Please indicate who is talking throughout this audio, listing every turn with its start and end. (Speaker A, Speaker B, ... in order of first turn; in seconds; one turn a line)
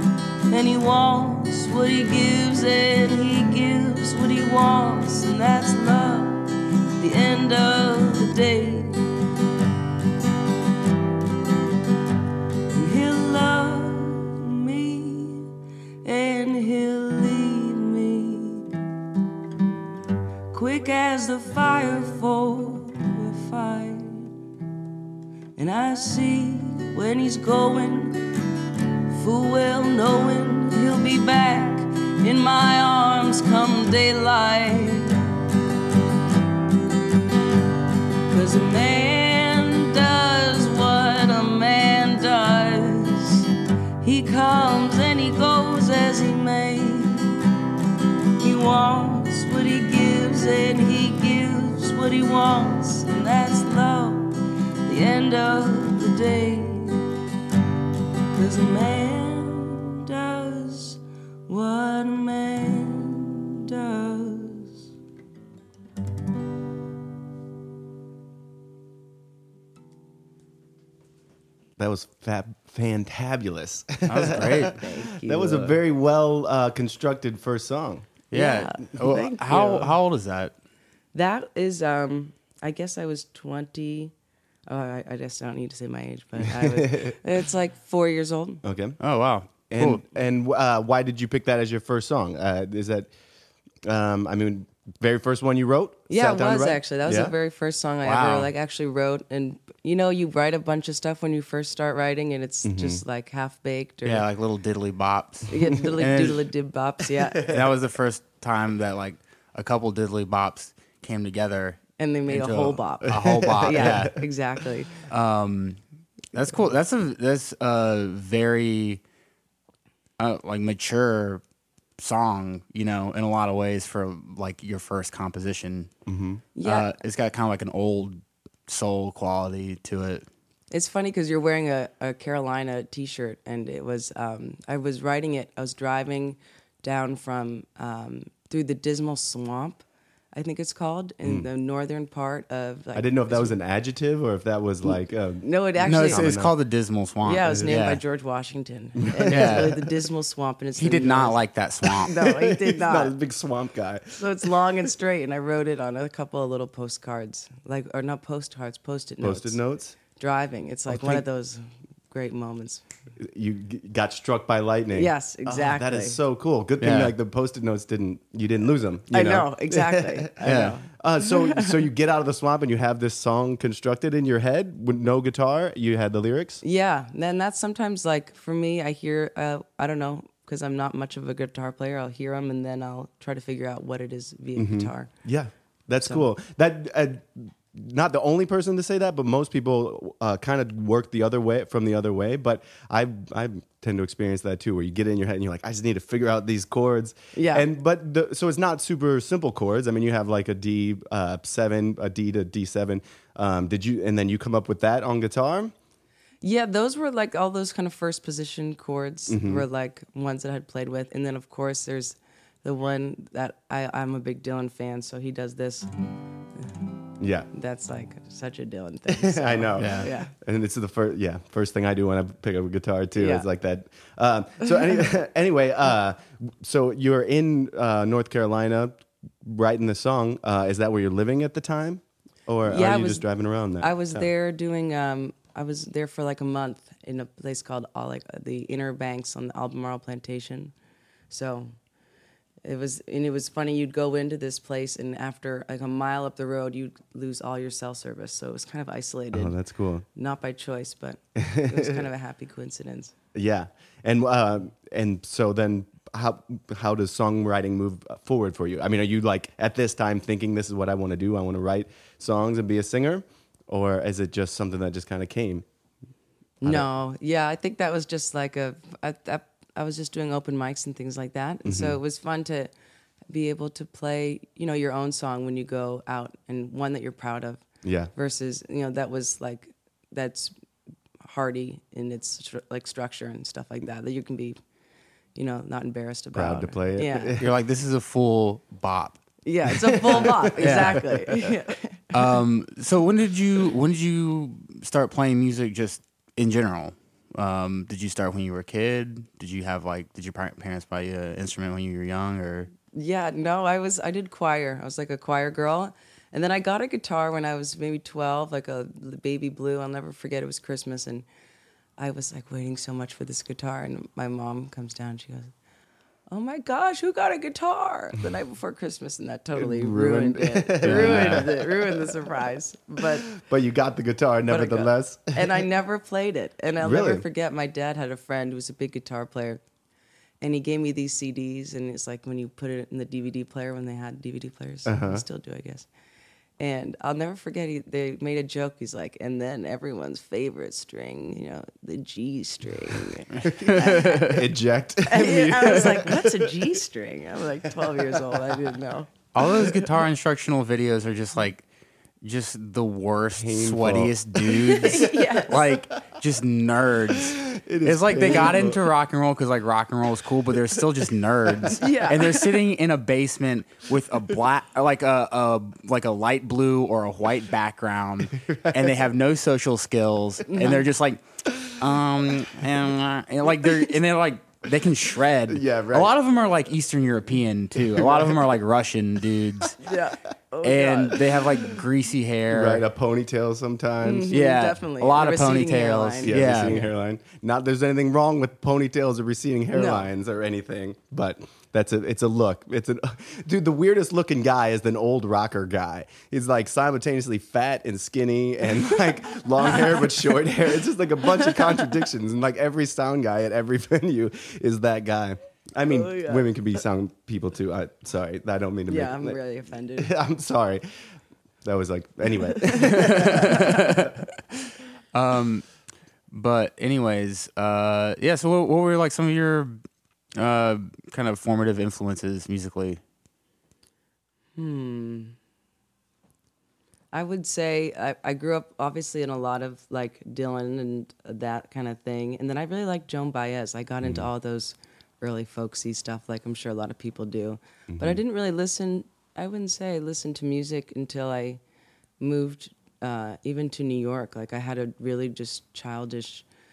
Speaker A: 0.5-6.4
Speaker A: 7.0-9.0
Speaker A: 12.7-15.5
Speaker A: 16.0-18.7
Speaker A: 20.5-24.3
Speaker A: 25.6-28.2
Speaker A: 29.1-35.3
Speaker A: 38.3-43.5
Speaker A: 44.0-47.3
Speaker A: 48.4-54.3
Speaker A: 54.9-57.0
Speaker A: 58.3-64.8
Speaker B: 71.8-78.1
Speaker C: 74.1-74.8
Speaker A: 74.2-75.8
Speaker C: 78.3-80.5
Speaker A: 78.3-79.9
Speaker B: 79.0-79.3
Speaker A: 81.1-84.1
Speaker A: 84.7-88.6
Speaker B: 86.4-87.2
Speaker B: 88.6-89.0
Speaker C: 89.0-90.0
Speaker B: 89.7-93.1
Speaker B: 93.8-97.3
Speaker A: 96.1-104.2
Speaker C: 98.0-98.5
Speaker B: 102.6-103.0
Speaker C: 104.0-106.4
Speaker A: 105.5-107.5
Speaker B: 107.3-107.7
Speaker C: 107.4-114.2
Speaker A: 112.0-114.9
Speaker B: 113.0-114.2
Speaker C: 115.0-115.8
Speaker C: 116.3-119.0
Speaker C: 120.2-121.4
Speaker C: 122.0-125.9
Speaker B: 126.1-126.4
Speaker A: 126.5-126.9
Speaker C: 126.6-130.2
Speaker A: 130.7-143.6
Speaker B: 142.9-146.5
Speaker A: 145.4-146.3
Speaker C: 145.8-148.0
Speaker A: 147.2-151.4
Speaker B: 147.5-147.8
Speaker B: 149.0-149.8
Speaker C: 149.3-149.8
Speaker C: 150.8-152.1
Speaker A: 152.0-153.1
Speaker B: 152.0-154.5
Speaker A: 154.2-159.6
Speaker B: 159.2-159.9
Speaker A: 160.1-162.8
Speaker C: 160.9-161.2
Speaker B: 163.2-170.3
Speaker A: 164.9-166.2
Speaker C: 166.8-167.1
Speaker A: 169.1-171.8
Speaker C: 170.4-170.8
Speaker B: 170.9-176.6
Speaker A: 176.6-185.1
Speaker B: 184.5-205.7
Speaker A: 197.3-197.7
Speaker A: 206.4-215.9
Speaker B: 209.3-209.6
Speaker B: 217.2-217.5
Speaker A: 217.5-220.3
Speaker B: 219.1-234.3
Speaker C: 219.8-220.1
Speaker A: 223.2-223.4
Speaker A: 232.6-233.2
Speaker A: 233.8-240.7
Speaker A: 241.3-241.7
Speaker A: 242.6-249.5
Speaker B: 249.3-250.0
Speaker A: 250.1-253.1
Speaker B: 251.3-252.1
Speaker B: 253.3-265.6
Speaker A: 266.6-272.7
Speaker B: 271.6-272.0
Speaker A: 273.3-280.5
Speaker B: 277.8-278.1
Speaker A: 281.2-284.6
Speaker A: 285.3-287.3
Speaker B: 286.3-287.5
Speaker C: 287.4-289.2
Speaker A: 289.4-292.0
Speaker B: 289.9-291.5
Speaker C: 290.6-291.0
Speaker C: 292.1-302.7
Speaker A: 302.9-311.2
Speaker A: 312.0-315.5
Speaker A: 316.3-323.2
Speaker B: 319.6-322.1
Speaker C: 320.8-321.5
Speaker B: 323.0-325.6
Speaker A: 324.5-329.6
Speaker B: 326.8-327.2
Speaker A: 330.4-335.9
Speaker B: 334.9-335.2
Speaker A: 336.6-344.2
Speaker C: 343.4-344.5
Speaker B: 343.4-346.6
Speaker A: 345.1-349.1
Speaker B: 347.8-348.6
Speaker C: 349.3-351.6
Speaker B: 349.4-349.8
Speaker C: 352.2-379.8
Speaker B: 353.4-355.3
Speaker A: 354.6-355.6
Speaker B: 357.2-358.8
Speaker A: 358.2-358.7
Speaker B: 361.5-361.7
Speaker A: 361.8-362.6
Speaker B: 368.4-368.9
Speaker A: 370.5-370.8
Speaker B: 375.5-376.1
Speaker B: 377.9-378.3
Speaker A: 379.8-381.4
Speaker C: 380.6-382.8
Speaker B: 382.5-384.4
Speaker A: 384.0-386.9
Speaker C: 384.3-386.8
Speaker B: 386.2-409.4
Speaker A: 389.7-390.1
Speaker A: 398.9-400.4
Speaker A: 401.3-401.9
Speaker A: 405.8-406.5
Speaker A: 408.9-410.1
Speaker B: 410.0-410.8
Speaker B: 411.6-414.1
Speaker C: 412.8-414.2
Speaker C: 415.1-415.6
Speaker C: 416.3-419.8
Speaker C: 420.4-423.0
Speaker A: 424.6-425.3
Speaker A: 427.1-441.6
Speaker B: 437.9-438.2
Speaker A: 442.2-446.4